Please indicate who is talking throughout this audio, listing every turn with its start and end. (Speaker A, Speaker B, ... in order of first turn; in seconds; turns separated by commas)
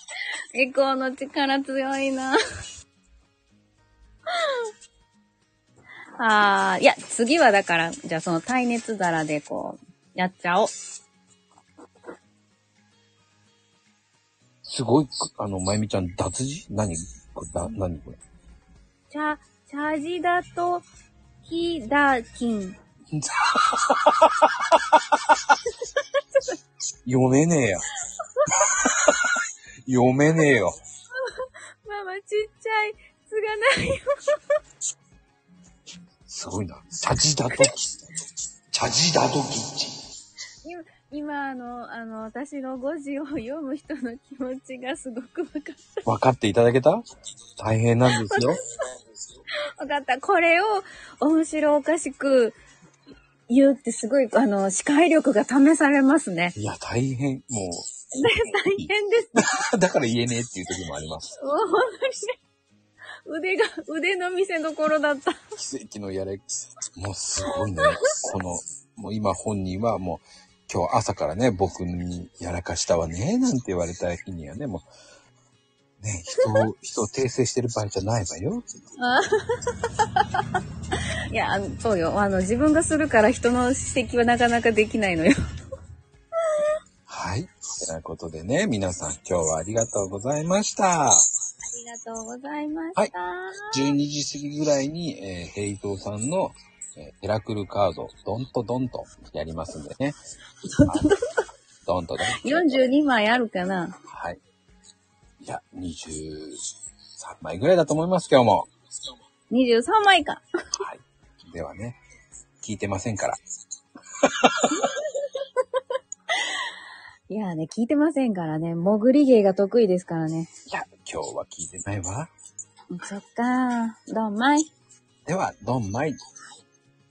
Speaker A: 0.5-2.4, Speaker A: 4.3-4.7, Speaker A: 6.2-10.7, Speaker B: 14.6-18.2, Speaker A: 19.1-20.9, Speaker A: 21.4-22.8, Speaker B: 23.1-25.4, Speaker B: 27.0-27.9, Speaker B: 28.5-30.8, Speaker A: 31.2-34.4, Speaker B: 36.3-38.1, Speaker B: 38.7-40.0, Speaker A: 40.6-46.0, Speaker B: 46.0-47.0, Speaker B: 47.6-48.6, Speaker A: 48.1-48.5, Speaker A: 49.8-52.6, Speaker A: 53.5-56.5, Speaker B: 56.5-57.9, Speaker A: 58.1-59.5, Speaker B: 58.5-61.4, Speaker A: 61.4-62.3, Speaker A: 63.2-65.4, Speaker B: 65.5-74.9, Speaker A: 67.4-68.1, Speaker B: 76.0-78.7, Speaker A: 79.0-80.4, Speaker A: 81.3-85.3, Speaker B: 87.1-91.2, Speaker A: 91.6-93.9, Speaker B: 93.7-100.2, Speaker A: 100.7-101.2, Speaker B: 101.8-102.6, Speaker A: 102.3-104.0, Speaker B: 104.1-104.4, Speaker B: 105.4-106.6, Speaker B: 107.2-108.7, Speaker A: 109.5-110.4, Speaker B: 110.8-112.0, Speaker B: 112.6-113.4, Speaker B: 114.2-114.9, Speaker A: 114.7-115.4, Speaker A: 117.3-120.5, Speaker B: 120.7-122.3, Speaker A: 122.9-124.7, Speaker B: 125.2-126.2